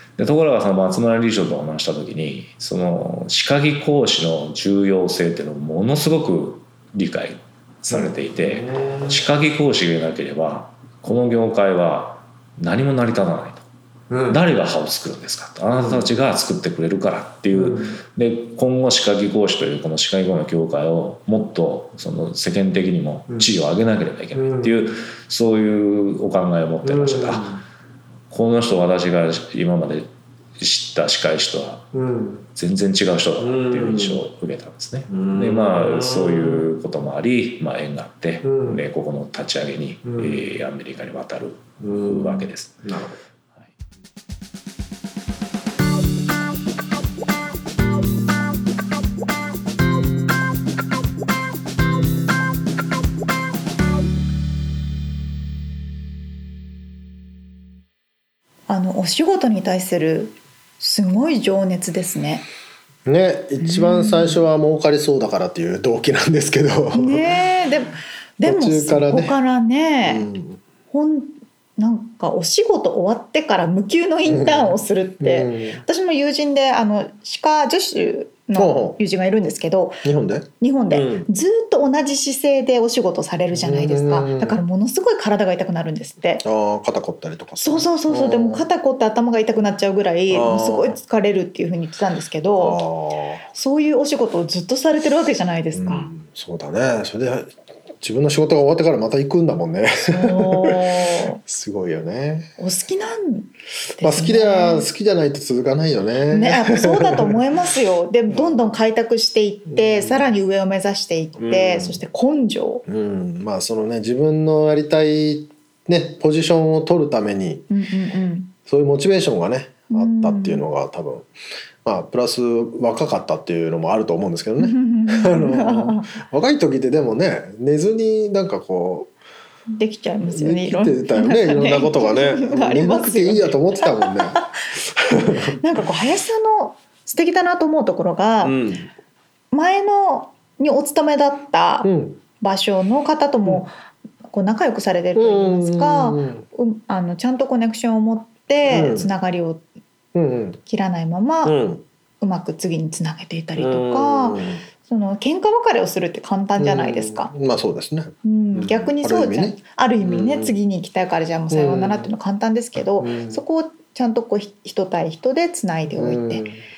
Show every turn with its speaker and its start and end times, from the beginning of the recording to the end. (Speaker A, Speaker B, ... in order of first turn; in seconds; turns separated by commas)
Speaker A: 0.2-13.6, Speaker B: 7.9-9.2, Speaker B: 14.1-14.4, Speaker A: 14.3-27.5, Speaker B: 15.8-16.1, Speaker B: 17.5-18.0, Speaker B: 24.4-24.8, Speaker B: 26.8-27.6, Speaker A: 28.3-31.9, Speaker B: 31.9-32.5, Speaker A: 32.5-42.8, Speaker B: 33.4-34.2, Speaker B: 35.1-36.7, Speaker B: 38.4-38.8, Speaker B: 40.1-40.4, Speaker B: 41.8-43.2, Speaker C: 58.7-62.5, Speaker B: 63.1-67.3, Speaker C: 63.6-64.4, Speaker C: 66.9-70.3, Speaker B: 68.4-69.4, Speaker B: 70.0-70.6, Speaker C: 70.9-80.0, Speaker B: 74.3-75.8, Speaker B: 78.6-79.0, Speaker B: 80.0-81.3, Speaker C: 80.6-86.5, Speaker B: 83.5-84.6, Speaker B: 86.4-88.7, Speaker C: 87.6-92.8, Speaker B: 90.3-91.0, Speaker B: 92.6-93.5, Speaker C: 93.5-96.1, Speaker B: 95.7-102.5, Speaker C: 100.1-101.4, Speaker C: 102.6-104.9, Speaker B: 104.0-107.4, Speaker C: 106.3-112.8, Speaker B: 108.3-108.7, Speaker B: 109.7-110.3, Speaker B: 111.4-112.0, Speaker B: 112.9-117.7, Speaker C: 117.7-118.5, Speaker B: 118.7-121.3, Speaker C: 119.9-120.7, Speaker B: 121.8-129.1, Speaker C: 124.6-126.1, Speaker C: 129.7-134.6, Speaker B: 130.2-134.4, Speaker B: 135.0-135.6, Speaker C: 135.5-138.6, Speaker B: 138.4-138.9, Speaker C: 139.5-143.7, Speaker B: 141.8-142.2, Speaker C: 144.3-149.6, Speaker B: 145.2-146.4, Speaker B: 148.7-149.1, Speaker B: 150.1-150.6, Speaker C: 150.7-151.6, Speaker B: 151.4-151.8, Speaker C: 152.2-157.3, Speaker B: 153.6-154.6, Speaker B: 156.6-160.6, Speaker C: 158.2-166.4, Speaker B: 161.5-162.1, Speaker B: 163.0-163.4, Speaker B: 165.9-166.6